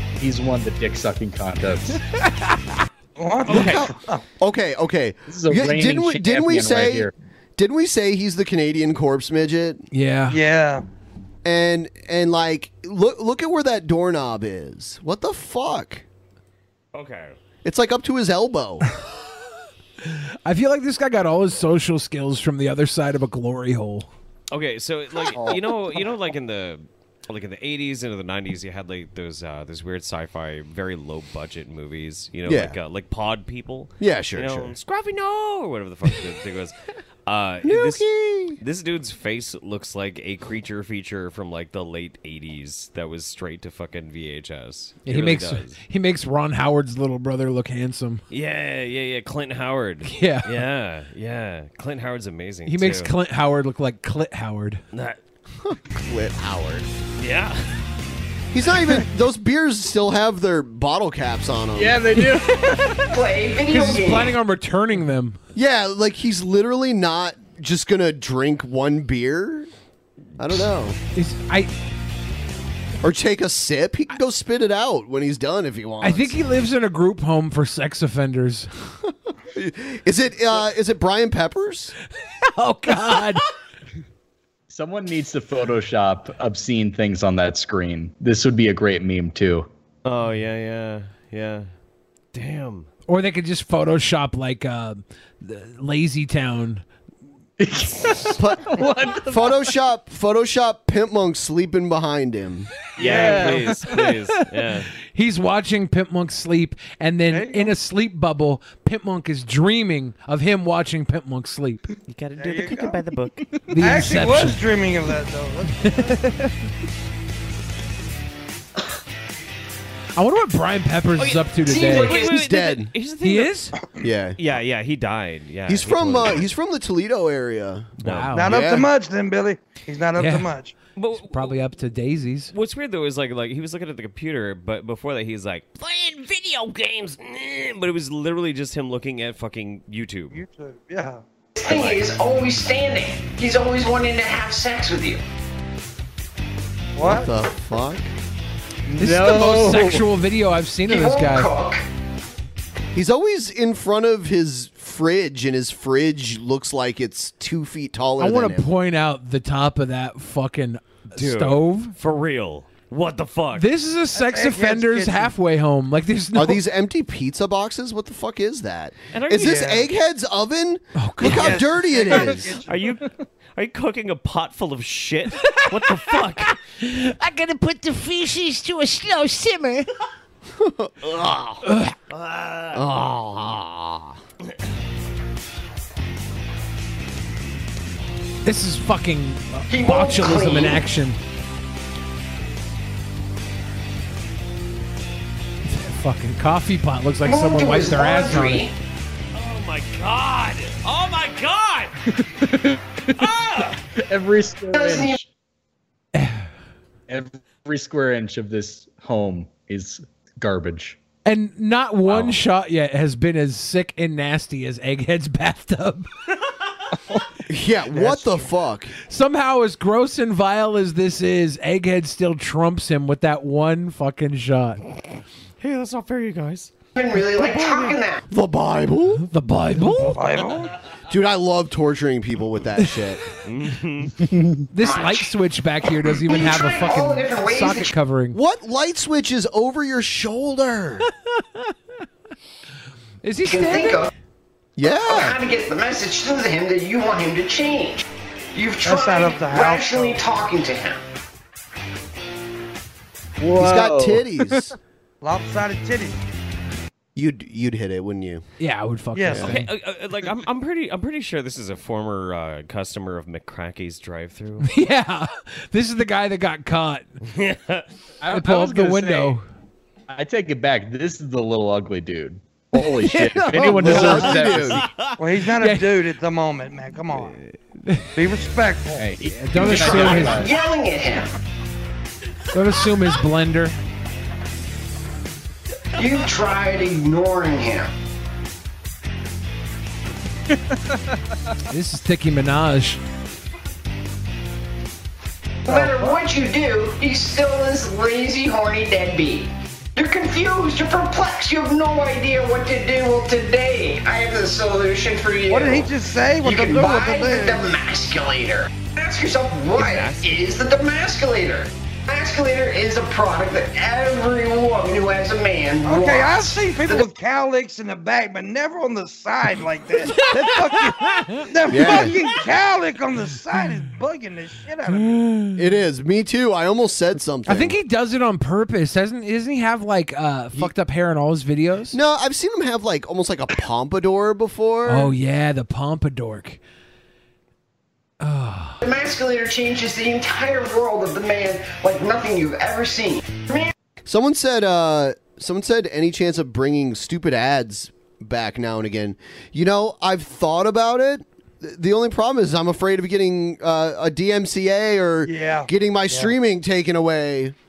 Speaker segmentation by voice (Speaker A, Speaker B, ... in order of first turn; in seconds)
Speaker A: 0.2-2.0, 5.3-7.1, 61.7-63.0, 84.7-89.7, 97.6-99.7, 103.0-103.8, 148.9-150.1, 204.0-205.3, 207.1-211.0, 212.1-212.4, 253.4-254.7, 268.2-269.4, 270.1-274.9, 279.0-280.5
Speaker B: 2.1-2.7, 9.9-10.4, 20.1-24.1, 45.1-48.2, 50.1-50.5, 52.6-54.8, 63.7-65.4, 71.2-71.7, 76.0-78.7, 82.6-83.4, 93.1-96.8, 105.1-111.8, 113.7-114.6, 115.8-116.5, 120.2-122.2, 123.2-123.7, 128.0-128.6, 130.2-130.5, 131.2-132.5, 149.0-151.5, 158.2-161.9, 163.5-166.6, 170.9-171.6, 181.7-181.9, 188.4-191.2, 195.7-198.7, 206.2-206.4, 211.3-216.1, 219.1-224.8, 229.2-230.2, 234.7-238.4, 243.2-244.1, 258.6-259.7, 264.6-267.1, 268.3-269.4, 273.6-274.2, 279.3-280.4, 282.5-283.7, 291.7-293.0, 320.2-322.0, 324.9-325.6, 327.5-331.9, 334.9-336.6, 338.2-338.8
Speaker C: 3.2-4.2, 10.3-10.8, 103.0-103.6, 107.3-107.7, 112.4-113.0, 113.8-115.9, 128.3-130.7, 140.3-141.2, 146.9-147.3, 164.2-165.3, 169.4-169.8, 171.3-172.6, 217.9-218.3, 230.1-230.7, 248.8-250.3, 255.2-256.2, 259.1-259.5, 275.2-277.4, 278.1-279.1, 295.7-296.2, 305.5-307.7, 315.8-321.0, 321.5-325.2, 355.3-356.3
Speaker D: 3.5-3.8, 16.9-17.4, 24.5-36.8, 37.3-38.1, 38.6-45.8, 48.3-53.1, 54.9-55.2, 57.2-57.7, 90.0-91.7, 92.3-92.9, 103.0-104.9, 112.1-113.5, 121.2-123.6, 124.4-126.4, 128.0-128.4, 130.9-131.6, 132.5-140.4, 141.7-142.1, 161.2-163.7, 169.1-169.8, 172.7-176.6, 182.1-182.8, 199.3-201.9, 203.2-203.8, 225.6-228.0, 233.4-234.1, 259.4-264.7, 267.3-267.9, 274.6-275.1, 309.8-310.5
Speaker E: 3.5-9.8, 11.4-16.0, 17.6-18.9, 32.5-32.8, 34.0-34.7, 37.6-38.6, 55.6-56.9, 58.5-62.0, 65.5-69.7, 70.4-71.0, 73.0-76.4, 79.5-81.9, 98.4-98.7, 99.2-102.7, 122.2-122.9, 124.0-124.4, 125.7-127.9, 128.4-128.9, 147.0-148.1, 152.9-158.7, 166.3-172.6, 180.6-181.6, 182.7-184.2, 217.5-218.9, 228.3-229.2, 231.1-233.2, 238.3-241.1, 244.8-245.4, 253.6-254.7, 257.1-258.4, 273.5-274.9, 321.7-322.2, 325.6-327.8, 331.9-335.1, 344.1-357.6
Speaker F: 63.1-64.4, 121.7-122.3, 141.6-145.2, 150.9-151.8, 189.7-190.8, 197.2-198.7, 204.7-205.2, 226.9-228.2, 234.8-235.3, 236.2-237.9, 243.4-244.1, 245.1-251.0, 279.6-281.3, 286.0-287.9, 295.6-305.9, 306.4-317.1, 338.8-343.7
Speaker G: 176.8-179.9